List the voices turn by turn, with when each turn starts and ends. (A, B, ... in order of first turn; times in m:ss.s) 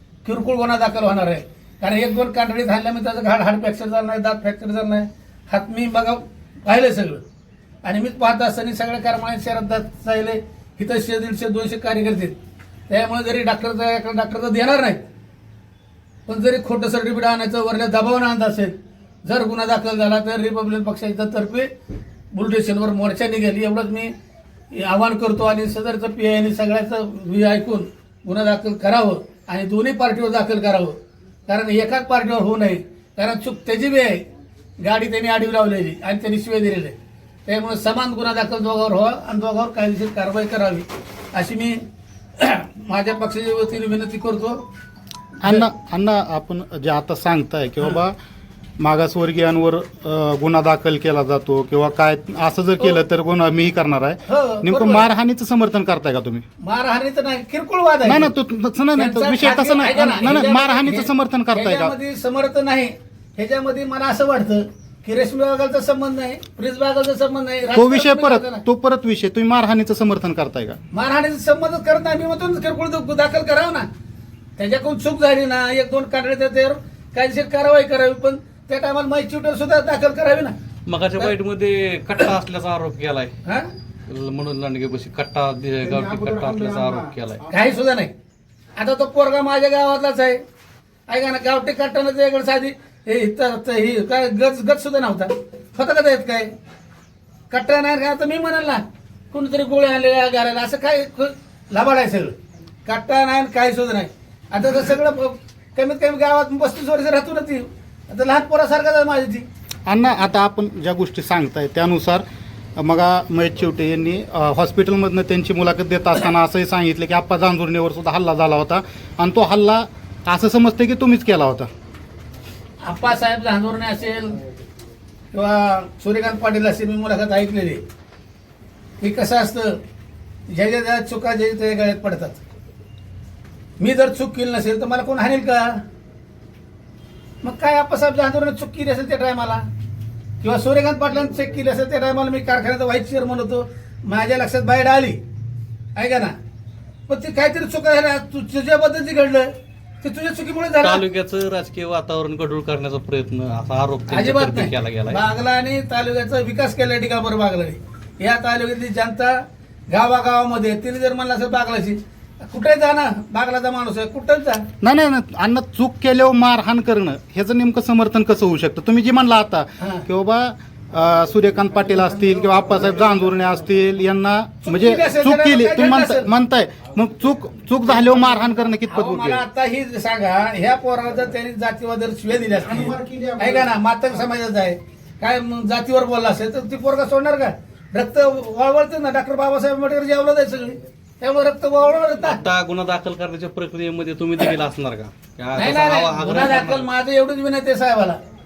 0:00.2-0:07.2 A
0:07.8-0:12.4 A
0:12.9-0:15.0 A
0:16.3-0:18.7 A
0:19.2-0:21.7 A
0:22.3-0:24.1 A
0:24.7-0:34.2 A
0:34.8-0:41.8 A
0:42.4-0:44.6 A
0:45.4-0:48.1 B
0:48.8-0:56.4 B
0:54.2-0:55.1 A
0:56.6-0:58.3 A
0:58.0-1:01.9 B
0:58.9-1:08.6 A
1:07.7-1:10.8 B
1:10.9-1:13.9 A
1:14.6-1:20.5 A
1:20.9-1:23.3 C
1:24.1-1:27.4 C
1:25.8-1:27.2 B
1:27.5-1:28.1 A
1:28.8-1:30.4 A
1:31.1-1:36.5 A
1:37.5-1:42.3 A
1:42.8-1:49.4 A
1:49.8-1:52.2 B
1:52.8-2:01.7 B
2:02.8-2:04.4 A
2:05.3-2:07.8 A
2:09.0-2:09.8 A
2:10.5-2:12.4 A
2:13.8-2:15.8 A
2:17.4-2:19.6 A
2:20.4-2:25.2 A
2:26.0-2:26.3 A
2:27.1-2:29.5 A
2:30.0-2:31.0 A
2:30.8-2:35.2 C
2:34.1-2:44.6 A
2:44.8-2:59.4 B
2:49.8-2:50.1 A
2:54.6-2:56.3 A
2:58.9-3:12.4 A
3:02.7-3:03.7 B
3:12.2-3:16.8 C
3:15.5-3:18.2 A